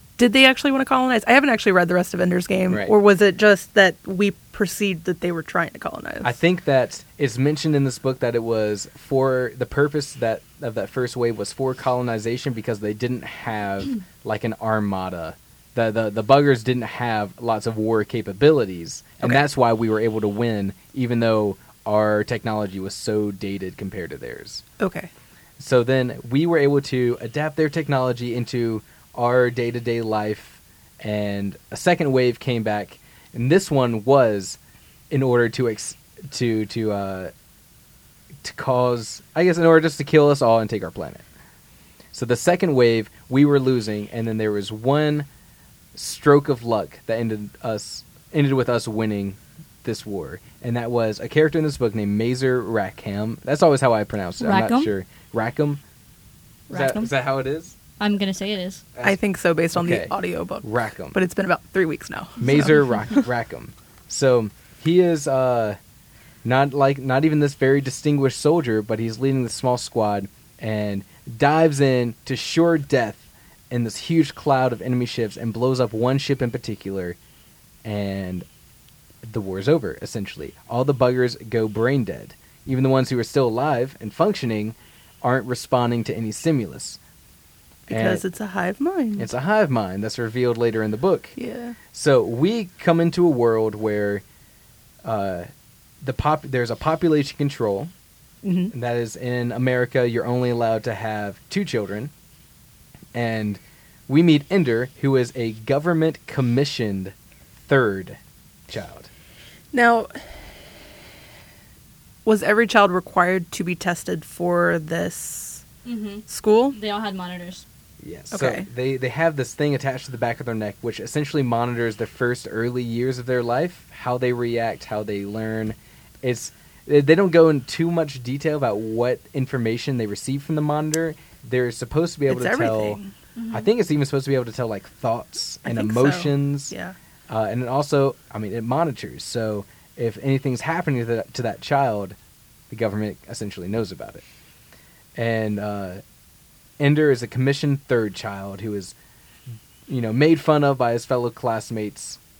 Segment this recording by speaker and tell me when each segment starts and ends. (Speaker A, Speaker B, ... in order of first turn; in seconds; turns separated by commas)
Speaker A: 0.2-6.3, Speaker B: 2.7-2.9, Speaker B: 6.2-24.6, Speaker A: 24.8-25.1, Speaker B: 25.6-34.6, Speaker B: 35.1-37.3, Speaker B: 38.4-41.2, Speaker B: 42.1-45.3, Speaker B: 45.9-55.8, Speaker C: 54.4-54.9, Speaker C: 56.7-57.1, Speaker B: 56.7-57.7, Speaker C: 58.0-58.8, Speaker A: 59.0-63.2, Speaker B: 59.7-61.2, Speaker B: 62.4-65.8, Speaker B: 66.4-77.2, Speaker B: 77.8-78.5, Speaker B: 79.2-87.0, Speaker A: 87.9-89.3, Speaker B: 87.9-88.2, Speaker B: 89.2-91.3, Speaker A: 91.3-91.8, Speaker B: 91.9-94.2, Speaker B: 95.0-95.5, Speaker B: 96.0-97.9, Speaker A: 98.4-98.7, Speaker B: 98.7-102.1, Speaker B: 103.1-107.1, Speaker B: 107.6-109.1, Speaker A: 109.7-110.2, Speaker A: 112.2-115.6, Speaker C: 115.8-117.6, Speaker A: 116.3-116.8, Speaker B: 118.0-133.0, Speaker A: 118.3-118.7, Speaker A: 132.3-133.1, Speaker C: 133.3-133.7, Speaker B: 133.5-136.7, Speaker A: 135.7-136.9, Speaker B: 137.3-142.1, Speaker B: 142.7-144.2, Speaker B: 145.2-146.0, Speaker B: 146.8-148.9, Speaker B: 149.9-152.2